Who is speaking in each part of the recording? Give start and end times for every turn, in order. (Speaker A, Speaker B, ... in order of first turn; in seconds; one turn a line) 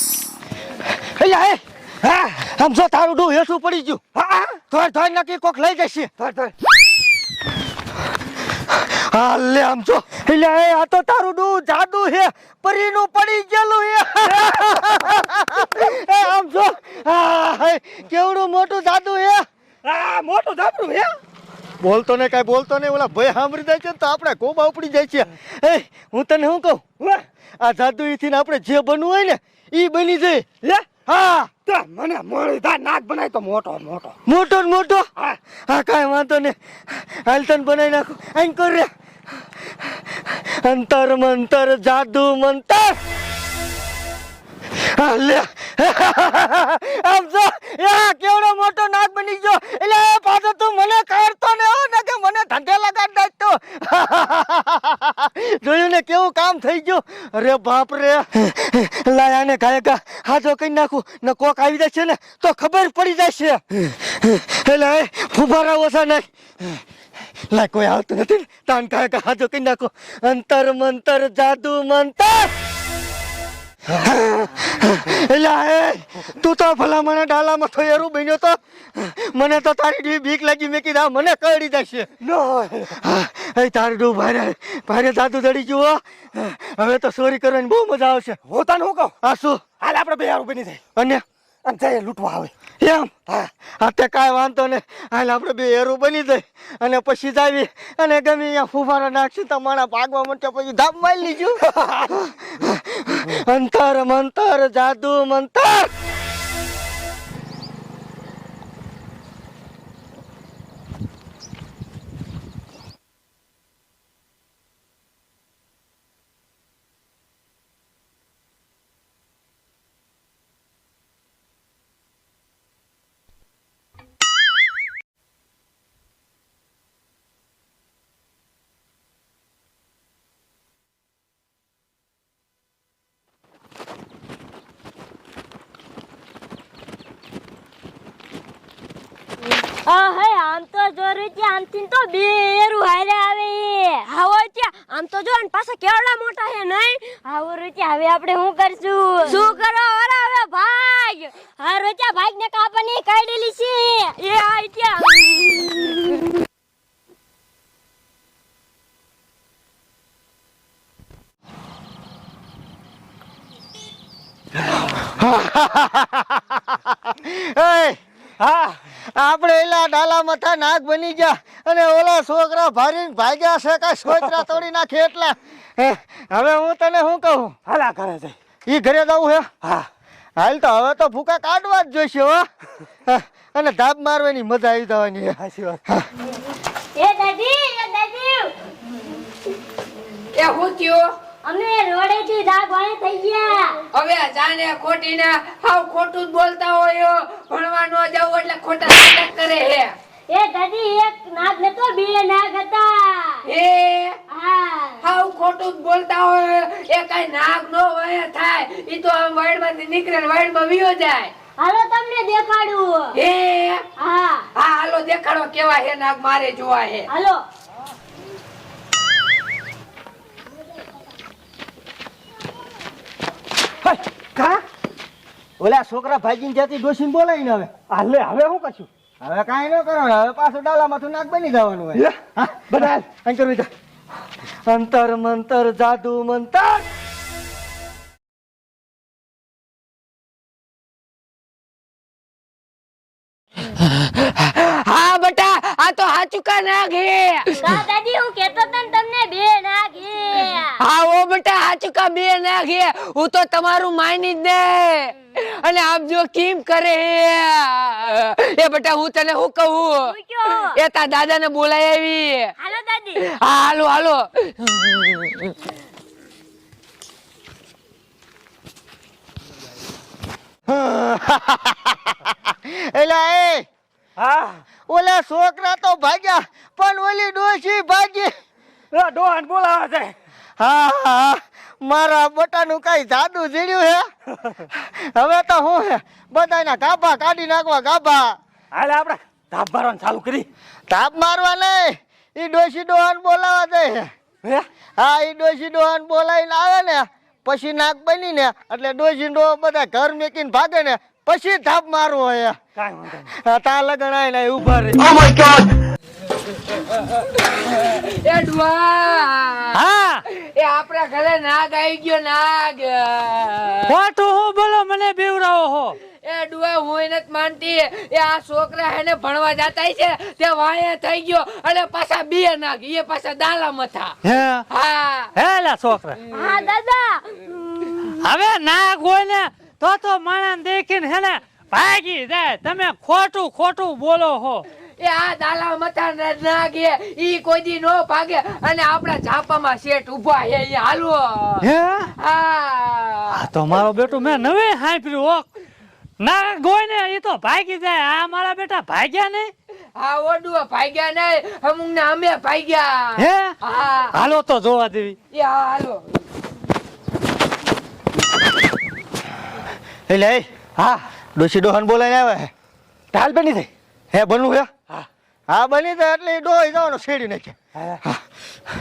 Speaker A: 1.0-1.6
Speaker B: 2.0-2.4
Speaker A: 2.4-4.0
Speaker B: 4.2-4.6
Speaker A: 4.7-6.1
Speaker B: 6.2-6.5
Speaker A: 8.7-19.4
Speaker B: 14.3-15.0
Speaker B: 19.8-21.1
Speaker A: 21.8-26.9
Speaker A: 27.6-30.4
Speaker B: 30.6-31.0
Speaker A: 31.1-31.5
Speaker B: 31.6-34.2
Speaker A: 34.3-38.9
Speaker A: 39.8-43.0
Speaker A: 44.7-66.8
Speaker A: 67.5-72.5
Speaker A: 73.9-82.1
Speaker B: 82.2-83.0
Speaker A: 82.9-88.4
Speaker B: 88.5-89.1
Speaker A: 89.2-89.6
Speaker B: 89.8-90.8
Speaker A: 91.0-91.2
Speaker B: 91.7-92.5
Speaker A: 92.8-105.9
Speaker B: 101.7-102.0
Speaker C: 139.7-156.2
Speaker A: 165.0-168.0
Speaker B: 168.4-168.8
Speaker A: 169.2-177.6
Speaker B: 177.7-178.4
Speaker A: 178.7-179.5
Speaker A: 180.4-182.4
Speaker A: 183.1-186.1
Speaker B: 185.4-185.8
Speaker C: 186.9-188.5
Speaker D: 190.3-191.1
Speaker C: 191.4-193.8
Speaker D: 193.9-199.9
Speaker C: 200.3-203.4
Speaker D: 203.5-204.2
Speaker C: 204.3-205.0
Speaker D: 205.0-211.3
Speaker C: 211.6-213.2
Speaker D: 213.1-213.8
Speaker C: 214.0-214.5
Speaker D: 214.6-217.1
Speaker C: 217.1-217.4
Speaker B: 223.8-224.6
Speaker A: 225.6-227.7
Speaker B: 227.9-228.9
Speaker A: 229.2-233.7
Speaker B: 231.9-233.1
Speaker A: 234.7-236.9
Speaker D: 243.9-247.7
Speaker C: 247.6-250.8
Speaker D: 250.8-262.5
Speaker C: 260.0-260.8
Speaker C: 262.6-263.3
Speaker D: 263.2-265.6
Speaker A: 270.7-273.7
Speaker B: 274.2-274.6
Speaker A: 274.9-278.3
Speaker B: 278.9-280.1
Speaker A: 280.6-284.1
Speaker A: 284.7-288.4
Speaker B: 288.7-290.5
Speaker A: 290.9-294.1
Speaker A: 295.0-302.6
Speaker B: 302.8-303.3
Speaker A: 303.3-305.6
Speaker D: 307.1-309.8
Speaker E: 309.7-310.2
Speaker D: 310.3-313.9
Speaker E: 313.9-316.0
Speaker D: 316.2-324.1
Speaker E: 324.2-324.6
Speaker D: 324.7-325.3
Speaker E: 325.4-326.2
Speaker C: 326.3-327.9
Speaker E: 328.0-334.7
Speaker D: 335.0-341.6
Speaker E: 341.6-342.1
Speaker D: 342.2-343.4
Speaker E: 343.3-345.5
Speaker E: 346.2-349.5
Speaker D: 350.0-354.1
Speaker E: 353.2-353.5
Speaker E: 354.1-355.2
Speaker D: 355.3-356.1
Speaker A: 360.1-360.5
Speaker B: 360.8-361.0
Speaker A: 361.4-362.5
Speaker B: 363.1-363.7
Speaker A: 364.1-364.7
Speaker A: 365.5-368.2